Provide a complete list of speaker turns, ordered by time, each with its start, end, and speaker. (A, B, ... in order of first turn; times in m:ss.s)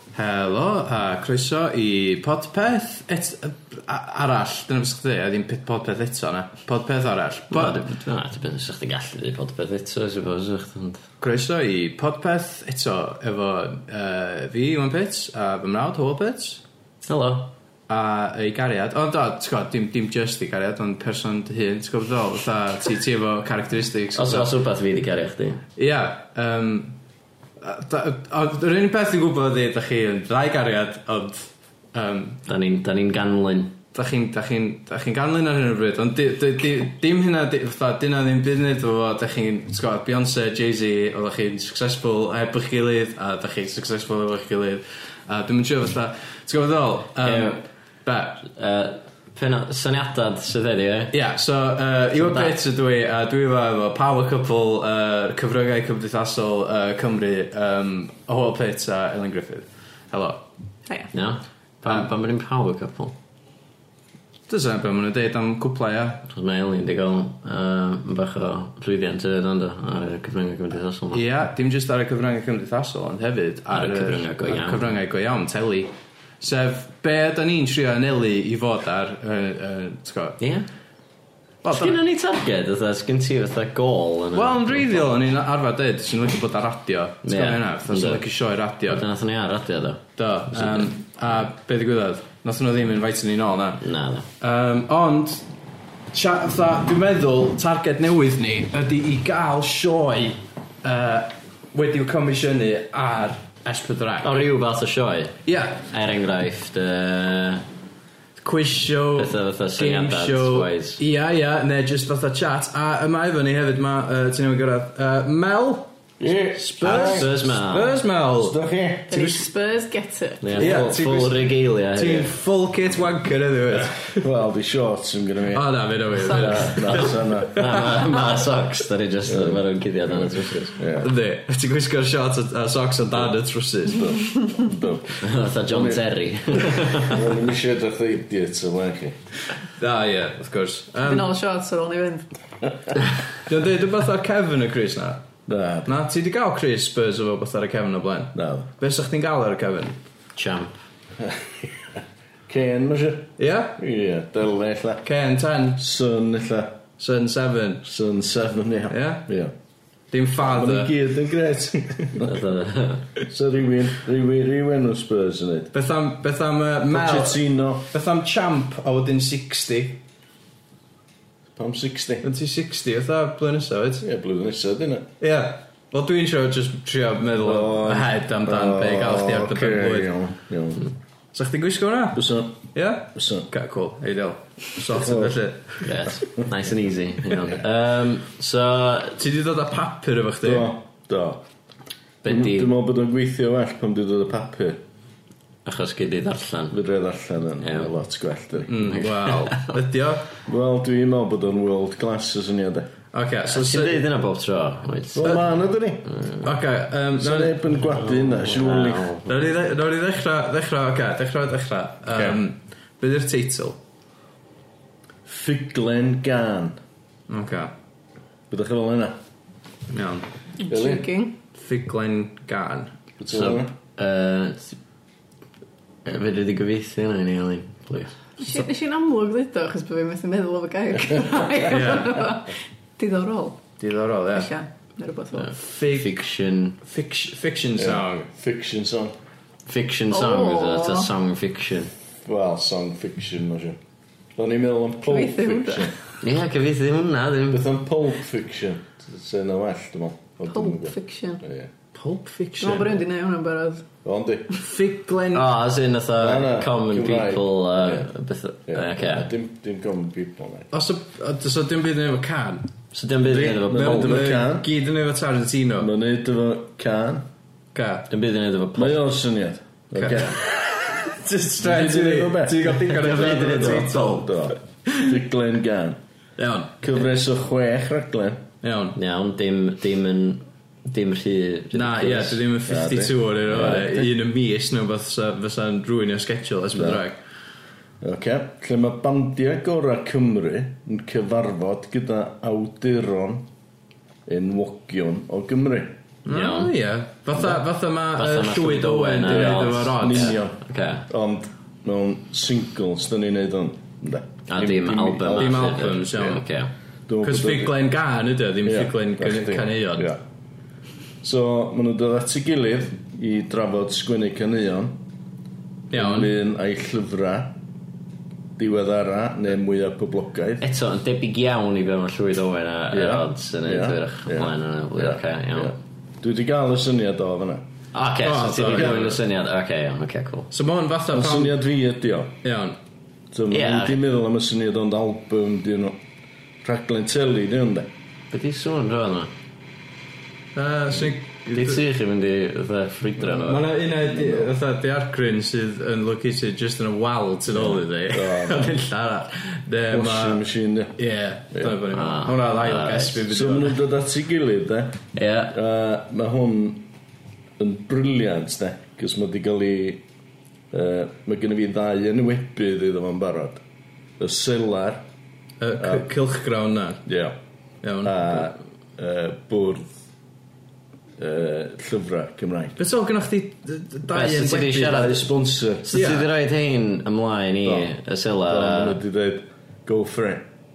0:00.1-0:07.8 A
0:07.5-0:11.0 B
0:11.2-0:16.6 A
0:17.0-0:17.5 B
0:17.9-0:24.5 A
0:24.1-0:25.6 B
0:25.8-0:27.0 A
0:27.6-0:32.4 A
0:32.4-0:33.8 B
0:33.9-0:48.4 A
0:47.2-0:47.6 B
0:48.4-0:51.1 B
0:51.1-1:00.4 A
0:52.2-0:52.6 B
1:01.1-1:03.1 B
1:04.5-1:06.2 A
1:06.2-1:11.2 B
1:11.1-1:20.4 A
1:13.7-1:14.8 B
1:20.4-1:20.7 B
1:21.6-1:22.0 A
1:21.7-1:25.1 B
1:24.3-1:29.0 A
1:27.2-1:28.2 B
1:28.9-1:30.9 B
1:30.2-1:33.8 A
1:33.8-1:34.2 B
1:34.4-1:35.4 A
1:36.1-1:44.4 A
1:44.2-1:47.6 B
1:45.4-1:45.8 A
1:48.4-1:55.9 A
1:49.2-1:51.0 B
1:56.2-1:57.4 C
1:56.5-1:58.6 A
1:56.8-1:58.0 B
1:58.3-1:59.4 C
1:59.1-2:00.8 D
2:00.4-2:02.3 B
2:00.5-2:04.2 A
2:04.2-2:05.7 C
2:05.5-2:08.0 A
2:06.2-2:07.5 C
2:06.2-2:06.7 D
2:07.5-2:10.8 B
2:09.2-2:11.1 C
2:11.0-2:14.3 A
2:13.9-2:19.2 C
2:15.2-2:17.2 B
2:19.8-2:21.3 A
2:21.0-2:22.3 D
2:23.4-2:25.2 A
2:25.5-2:25.9 C
2:25.8-2:30.0 A
2:28.3-2:28.7 C
2:30.3-2:30.8 B
2:31.2-2:35.0 C
2:33.4-2:33.8 A
2:35.0-2:35.8 A
2:35.8-2:36.8 C
2:37.0-2:37.8 A
2:37.8-2:39.5 C
2:38.9-2:39.2 A
2:40.1-2:40.9 A
2:40.4-2:42.3 C
2:42.2-2:43.1 B
2:43.2-2:45.7 C
2:45.7-2:50.0 A
2:46.9-2:47.8 C
2:51.5-2:52.3 C
2:52.2-2:54.0 A
2:54.0-2:55.1 C
2:55.2-3:00.1 A
2:57.4-3:00.9 C
3:01.3-3:05.9 A
3:02.1-3:03.5 C
3:04.9-3:05.4 C
3:05.8-3:09.2 B
3:09.2-3:10.7 A
3:10.4-3:11.4 C
3:12.2-3:12.7 B
3:12.2-3:14.8 C
3:15.6-3:16.8 B
3:16.7-3:19.0 C
3:17.6-3:17.9 B
3:18.7-3:20.3 A
3:18.8-3:19.7 B
3:20.5-3:22.9 C
3:23.1-3:24.0 A
3:23.5-3:25.4 B
3:25.1-3:26.1 C
3:26.1-3:26.4 B
3:26.4-3:27.7 A
3:27.2-3:29.1 C
3:28.0-3:29.5 B
3:29.2-3:33.8 A
3:32.1-3:32.4 C
3:35.2-3:36.8 C
3:37.3-3:37.7 A
3:38.5-3:39.2 C
3:39.9-3:40.2 A
3:40.6-3:41.3 D
3:40.7-3:41.1 C
3:41.5-3:42.9 A
3:43.2-3:43.7 C
3:43.3-3:44.8 B
3:46.0-3:48.2 B
3:48.4-3:53.6 D
3:51.6-3:52.2 A
3:53.8-3:54.5 A
3:54.3-3:55.5 D
3:55.3-3:56.8 B
3:55.5-3:56.1 A
3:56.8-3:58.3 A
3:57.8-3:59.1 C
3:59.6-4:01.9 B
4:00.1-4:01.1 D
4:02.2-4:03.8 C
4:04.4-4:05.9 C
4:05.1-4:05.9 D
4:06.2-4:07.6 B
4:07.5-4:11.7 C
4:10.5-4:11.4 D
4:11.9-4:13.0 A
4:12.6-4:13.8 D
4:14.0-4:14.5 C
4:14.6-4:15.5 A
4:15.3-4:19.3 B
4:16.2-4:18.1 C
4:18.7-4:20.7 C
4:20.7-4:22.7 A
4:22.9-4:24.2 B
4:23.3-4:24.7 C
4:23.3-4:25.9 A
4:25.8-4:27.3 C
4:27.7-4:28.0 A
4:28.1-4:29.0 B
4:28.8-4:30.4 C
4:29.9-4:35.0 A
4:31.6-4:36.0 C
4:33.0-4:34.2 B
4:36.4-4:36.8 A
4:36.8-4:38.4 C
4:38.6-4:39.0 A
4:38.9-4:42.4 B
4:41.7-4:47.2 A
4:42.6-4:44.1 C
4:46.7-4:47.0 C
4:48.0-4:53.5 C
4:54.2-4:56.0 C
4:56.2-5:00.4 A
4:56.3-4:56.7 B
4:58.2-5:01.0 B
4:59.2-5:05.8 C
5:04.5-5:06.7 B
5:05.3-5:06.4 A
5:07.1-5:07.8 C
5:07.2-5:10.1 A
5:08.6-5:10.2 C
5:11.2-5:15.0 C
5:15.9-5:16.3 A
5:15.9-5:17.6 C
5:18.6-5:20.6 C
5:20.6-5:25.8 B
5:22.9-5:27.6 C
5:27.9-5:30.5 B
5:28.2-5:29.2 A
5:28.6-5:29.1 C
5:30.5-5:31.6 A
5:31.1-5:32.4 C
5:32.4-5:32.8 A
5:33.3-5:36.0 C
5:33.5-5:34.0 B
5:36.6-5:37.9 C
5:38.3-5:39.3 B
5:40.6-5:41.8 A
5:41.5-5:43.6 B
5:43.2-5:50.4 A
5:44.0-5:44.5 C
5:47.5-5:48.7 C
5:49.9-5:51.0 C
5:51.0-5:53.8 A
5:51.5-5:51.8 C
5:51.9-5:53.2 B
5:53.3-5:55.0 C
5:55.1-5:55.5 B
5:55.5-5:56.9 C
5:57.6-6:00.0 C
6:00.7-6:03.6 C
6:04.2-6:05.0 C
6:05.6-6:07.0 A
6:05.8-6:06.0 C
6:07.0-6:07.4 C
6:07.8-6:08.2 A
6:08.0-6:09.9 C
6:11.2-6:12.8 C
6:12.8-6:15.1 A
6:14.1-6:15.3 B
6:14.8-6:15.9 C
6:15.8-6:19.0 B
6:15.9-6:16.3 A
6:17.6-6:17.9 C
6:18.5-6:20.5 C